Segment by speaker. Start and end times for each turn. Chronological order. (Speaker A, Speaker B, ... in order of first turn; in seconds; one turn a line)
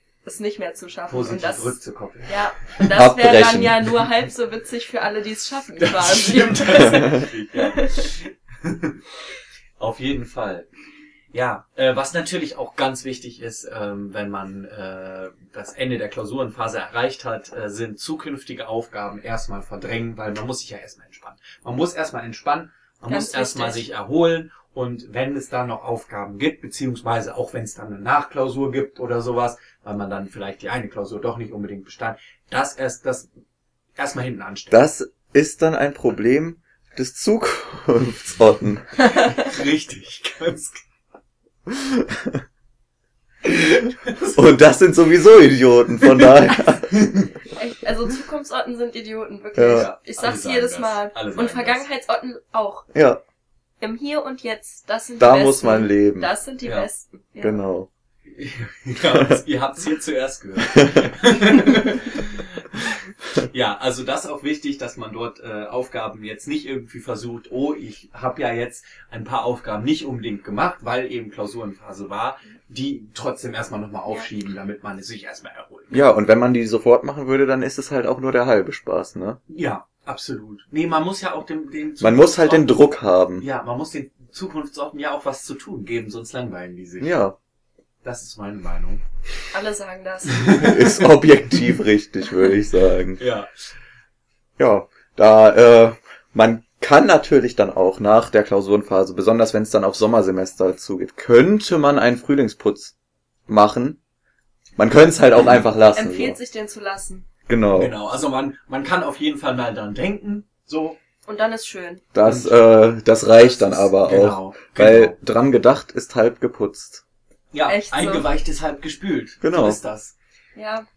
Speaker A: 0.2-8.1
Speaker B: 1.1-2.7
Speaker C: 2.8-4.0
Speaker B: 5.8-9.0
Speaker B: 9.8-10.7
Speaker B: 11.3-33.3
Speaker A: 23.1-23.9
Speaker B: 34.0-34.8
Speaker C: 34.7-39.1
Speaker B: 39.2-40.8
Speaker C: 41.7-42.4
Speaker B: 43.4-44.4
Speaker C: 44.2-47.0
Speaker B: 46.9-47.2
Speaker A: 47.5-52.9
Speaker C: 49.5-49.9
Speaker B: 49.7-51.9
Speaker C: 52.9-53.2
Speaker A: 53.8-57.7
Speaker C: 55.2-56.3
Speaker B: 56.6-56.9
Speaker C: 57.4-57.9
Speaker B: 58.2-76.0
Speaker C: 59.1-59.4
Speaker C: 60.7-61.1
Speaker C: 75.9-79.4
Speaker B: 79.5-82.7
Speaker C: 82.0-83.5
Speaker B: 83.4-87.2
Speaker C: 87.0-87.3
Speaker B: 88.0-89.0
Speaker A: 89.5-90.7
Speaker B: 90.3-90.9
Speaker C: 90.6-93.2
Speaker B: 93.2-93.7
Speaker C: 94.6-102.9
Speaker C: 103.5-104.0
Speaker C: 104.8-106.4
Speaker A: 105.9-107.2
Speaker C: 107.5-107.9
Speaker B: 107.7-111.0
Speaker A: 111.2-112.0
Speaker C: 112.1-117.0
Speaker B: 112.2-112.6
Speaker B: 113.3-115.2
Speaker B: 117.5-120.1
Speaker A: 117.7-118.3
Speaker C: 119.4-119.8
Speaker A: 120.5-120.8